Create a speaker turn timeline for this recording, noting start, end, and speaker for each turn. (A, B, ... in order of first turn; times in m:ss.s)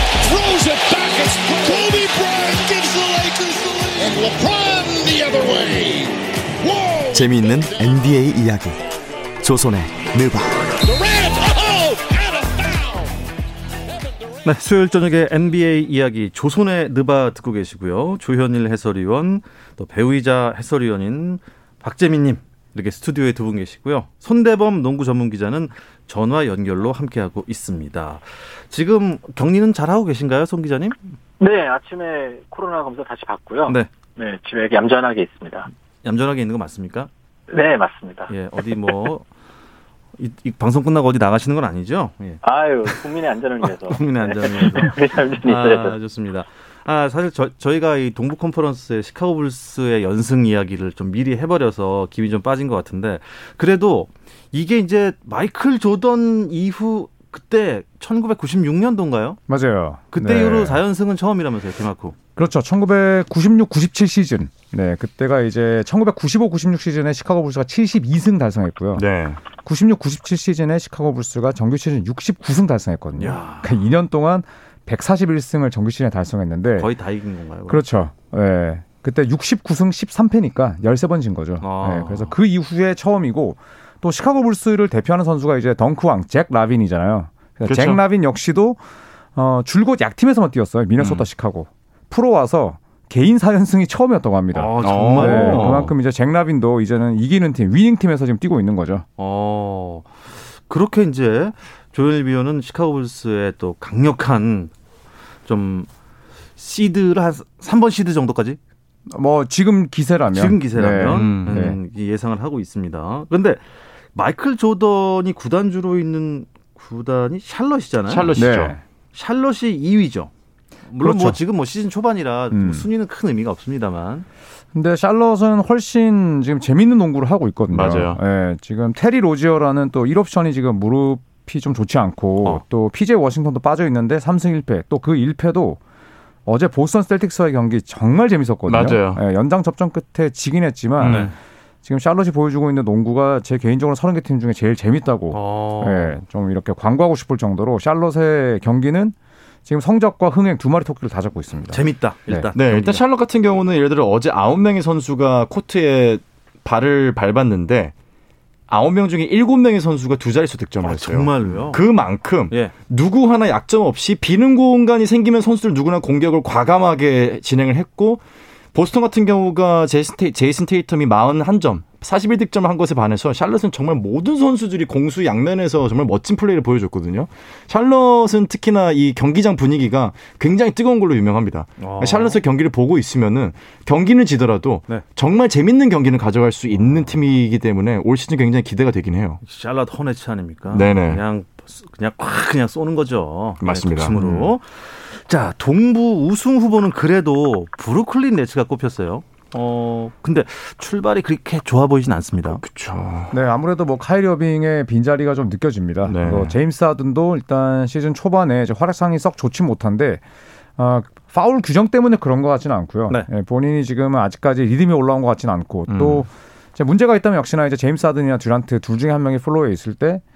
0:00.2-0:07.6 A
0:07.1-0:08.8 B
0:09.4-0:10.8 B
0:10.7-0:13.1 A
0:14.0-0:14.3 A
0:14.4-0:31.1 C
0:31.4-0:35.7 D
0:36.0-0:37.1 C
0:37.5-0:38.3 D
0:38.3-0:39.2 C
0:40.2-0:43.0 C
0:42.4-0:45.9 D
0:43.9-0:59.4 C
0:59.5-1:00.8 E
1:00.1-1:02.2 C
1:02.4-1:09.0 E
1:09.0-1:09.4 F
1:09.6-1:16.9 E
1:13.2-1:13.7 C
1:16.8-1:17.8 C
1:17.7-1:28.8 E
1:21.6-1:22.4 C
1:27.6-1:28.0 F
1:29.3-1:39.0 E
1:31.0-1:31.2 C
1:34.5-1:35.9 C
1:34.8-1:35.9 F
1:39.2-1:44.7 C
1:45.4-1:45.9 C
1:46.6-1:48.6 C
1:49.1-1:51.8 E
1:50.3-1:53.6 C
1:51.1-1:51.6 F
1:54.1-1:58.3 C
1:58.1-1:58.8 F
1:58.3-1:58.8 E
1:59.1-2:00.3 C
2:00.9-2:04.2 C
2:01.0-2:01.4 E
2:02.5-2:02.8 E
2:04.7-2:15.8 E
2:07.7-2:08.2 F
2:16.4-2:21.3 E
2:18.7-2:19.2 F
2:21.0-2:21.3 F
2:21.1-2:21.3 C
2:21.8-2:29.1 E
2:25.3-2:26.2 C
2:29.6-2:32.5 E
2:31.7-2:33.0 C
2:32.5-2:37.9 F
2:38.7-2:48.2 F
2:40.8-2:41.8 C
2:48.7-3:09.4 F
3:01.8-3:02.4 C
3:09.4-3:22.6 C
3:10.7-3:11.2 F
3:13.6-3:14.5 F
3:22.5-3:23.3 F
3:23.3-3:30.2 E
3:26.0-3:26.6 F
3:30.8-3:40.2 E
3:35.9-3:36.2 F